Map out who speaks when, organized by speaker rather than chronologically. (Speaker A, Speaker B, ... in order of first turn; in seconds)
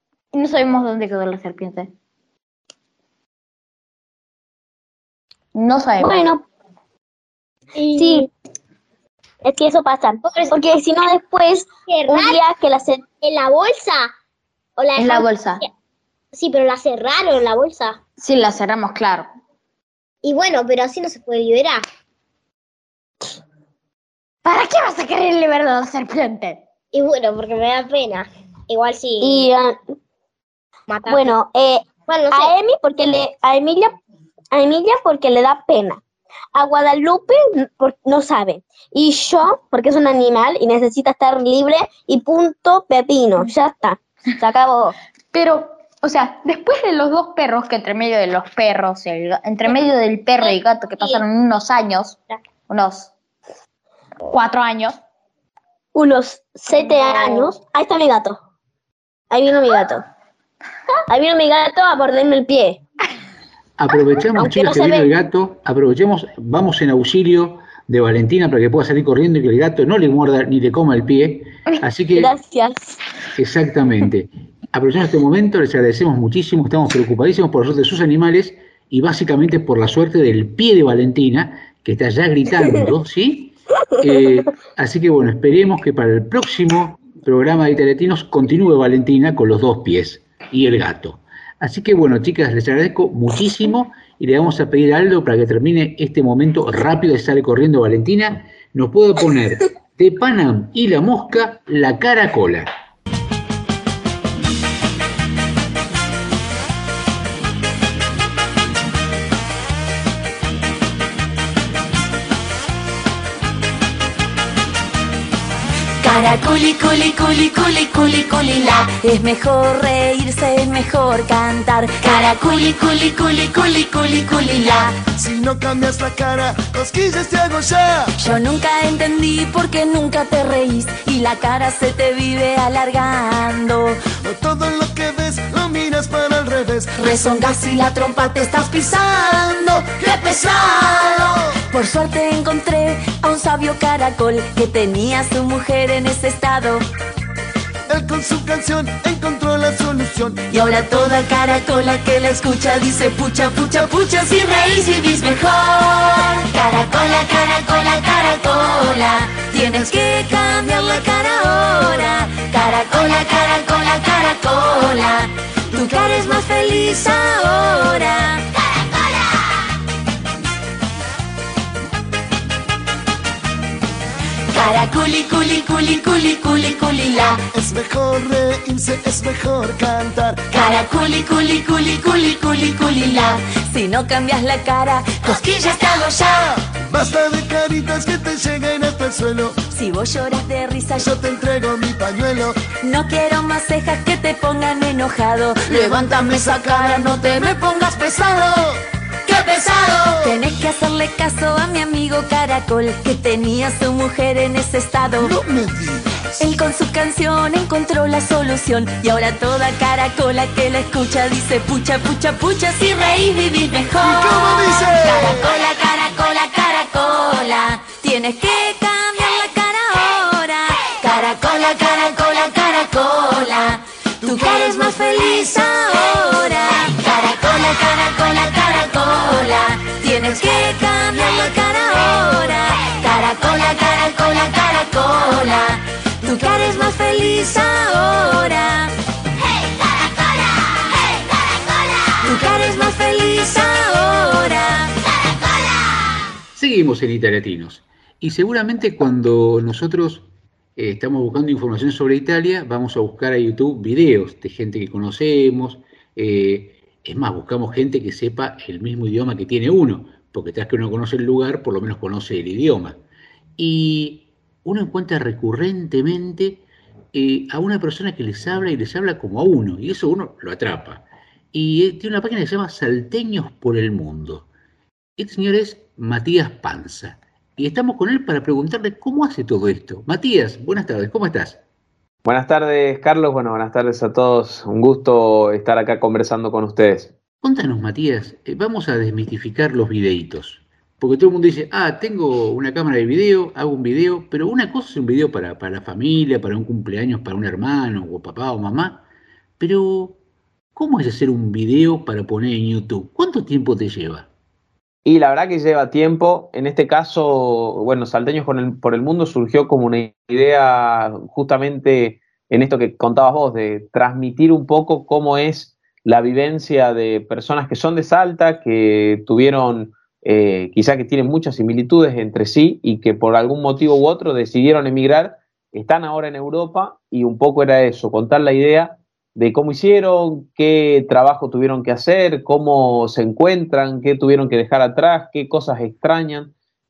Speaker A: 0.3-1.9, 5.5-6.3, 15.0-15.6, 18.2-19.3, 24.4-26.6, 45.3-53.1, 54.3-55.0, 56.8-57.5
Speaker B: 6.0-6.4, 7.8-8.3, 9.4-13.1, 29.2-29.8, 31.1-34.0, 34.5-36.0, 36.5-44.9, 56.0-58.4, 59.3-60.0, 61.1-62.8, 64.4-65.1, 72.2-73.0
Speaker C: 8.0-8.2, 10.2-10.6, 11.8-12.4, 13.1-14.1, 14.8-15.7, 16.3-18.0, 20.2-21.8, 26.9-29.5, 30.9-31.3, 32.1-32.6
Speaker D: 63.8-72.3, 73.4-102.7, 246.6-263.0, 263.6-274.5, 275.2-281.6, 287.4-299.0, 299.6-300.2, 300.8-304.3
Speaker E: 116.0-125.0, 128.2-134.0, 137.0-146.8, 150.5-168.4, 174.5-177.5, 180.5-186.5, 189.7-191.1, 192.8-197.3, 200.2-205.4, 206.4-238.9, 242.2-244.9
Speaker F: 125.1-128.1, 134.2-137.2, 139.9-141.6, 147.9-150.5, 159.7-159.9, 177.5-180.4, 186.5-189.6, 191.0-192.7, 195.6-197.2, 199.4-200.3, 205.2-206.5, 214.0-215.5
Speaker G: 282.2-287.1, 305.1-336.5